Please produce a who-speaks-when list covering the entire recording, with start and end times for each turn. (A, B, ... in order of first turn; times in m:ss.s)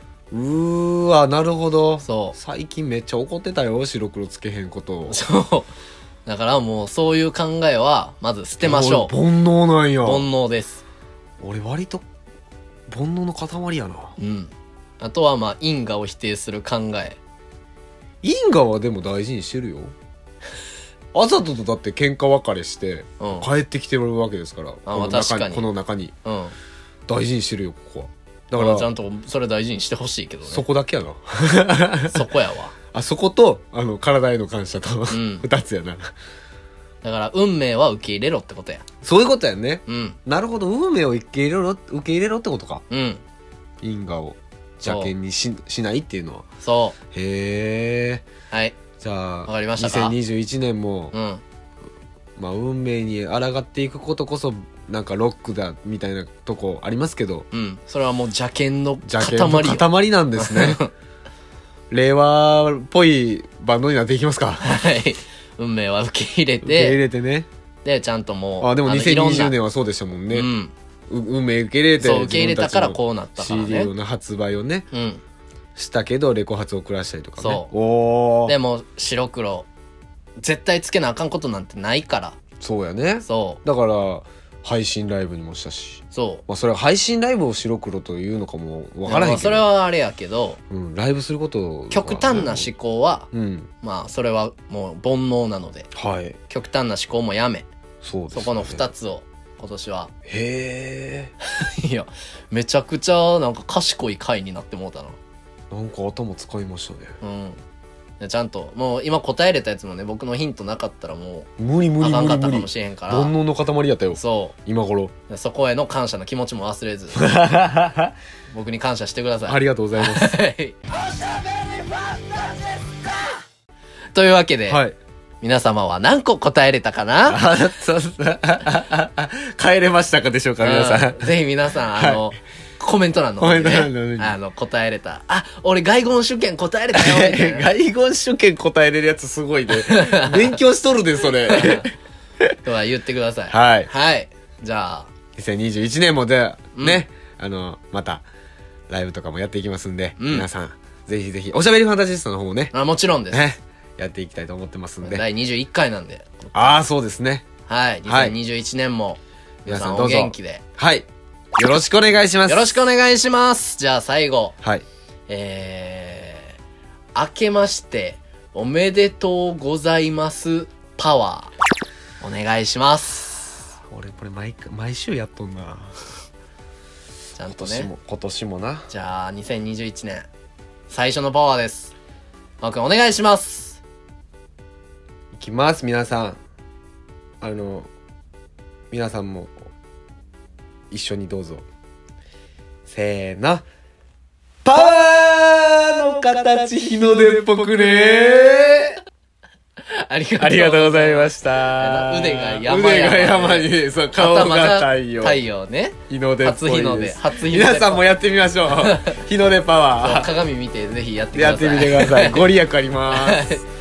0:00.3-0:05.2 A
0:02.0-0:02.4 B
0:05.1-0:05.7 B
0:06.2-0:09.1 B
0:08.6-0:10.3 A
0:10.0-0:10.8 B
0:11.4-0:12.0 A
0:12.9-0:14.1 A
0:14.2-0:17.2 B
0:18.2-0:19.9 A
0:21.1-0:26.1 A
0:23.2-0:23.5 B
0:24.9-0:25.7 B
0:26.2-0:26.5 B
0:27.1-0:28.9 A
0:28.5-0:30.6 B
0:30.5-0:32.2 A
0:32.1-0:32.7 B
0:32.9-0:36.1 A
0:35.1-0:35.4 B
0:37.0-0:38.8 B
0:39.0-0:42.8 A
0:39.9-0:40.2 B
0:42.9-0:43.2 B
0:43.8-0:46.4 A
0:44.8-0:45.1 B
0:46.6-0:47.0 B
0:47.1-0:48.2 A
0:48.5-0:48.8 B
0:49.0-0:51.1 A
0:49.4-0:50.2 B
0:51.1-0:51.4 B
0:52.4-0:57.4 A
0:57.5-0:59.8 B
0:59.0-1:00.8 A
1:00.4-1:00.9 B
1:01.9-1:04.6 A
1:04.6-1:07.0 B
1:06.6-1:07.5 A
1:07.8-1:09.5 B
1:08.6-1:10.5 A
1:10.3-1:10.7 B
1:11.1-1:14.9 A
1:12.0-1:13.9 B
1:14.9-1:15.2 B
1:15.8-1:18.6 A
1:17.4-1:17.7 B
1:18.4-1:19.7 B
1:20.4-1:22.4 B
1:22.6-1:29.6 A
1:23.2-1:23.6 B
1:26.1-1:26.4 B
1:29.0-1:30.6 B
1:30.7-1:32.7 A
1:31.9-1:33.3 B
1:33.3-1:33.7 A
1:33.8-1:35.9 B
1:35.9-1:36.4 A
1:36.5-1:37.7 B
1:38.0-1:38.8 A
1:38.3-1:40.1 B
1:40.3-1:41.3 A
1:41.4-1:45.2 B
1:45.7-1:47.1 A
1:47.2-1:47.6 B
1:48.2-1:53.3 B
1:51.6-1:55.1 A
1:54.1-1:54.6 B
1:55.3-1:57.2 B
1:57.2-1:58.1 A
1:58.5-2:00.8 B
1:59.5-2:00.3 A
2:04.1-2:04.8 B
2:04.7-2:05.0 A
2:05.4-2:07.4 B
2:07.2-2:11.3 A
2:10.6-2:17.7 B
2:11.9-2:12.2 A
2:13.4-2:14.3 A
2:16.9-2:21.9 A
2:19.7-2:20.6 B
2:21.4-2:21.9 B
2:22.6-2:25.1 B
2:23.5-2:23.9 A
2:25.4-2:28.2 A
2:26.7-2:27.0 B
2:28.9-2:32.7 A
2:30.2-2:30.5 B
2:32.7-2:33.4 B
2:33.3-2:35.2 A
2:35.0-2:36.8 B
2:36.5-2:37.4 A
2:37.7-2:40.6 B
2:38.1-2:38.3 A
2:39.6-2:42.7 A
2:42.5-2:44.6 B
2:45.3-2:46.6 B
2:47.1-2:51.5 B
2:52.2-2:53.6 B
2:53.9-2:56.0 A
2:57.3-2:57.9 B
2:57.5-2:58.9 A
2:58.9-3:00.3 B
3:00.9-3:01.9 B
3:02.6-3:03.8 B
3:05.3-3:06.4 A
3:07.4-3:07.9 A
3:08.9-3:09.5 A
3:10.9-3:11.6 A
3:12.9-3:13.6 A
3:14.6-3:19.0 A
3:19.9-3:28.1 B
3:20.4-3:25.4 A
3:26.1-3:30.3 A
3:28.7-3:29.2 B
3:30.0-3:32.5 B
3:31.3-3:33.6 A
3:33.1-3:33.6 B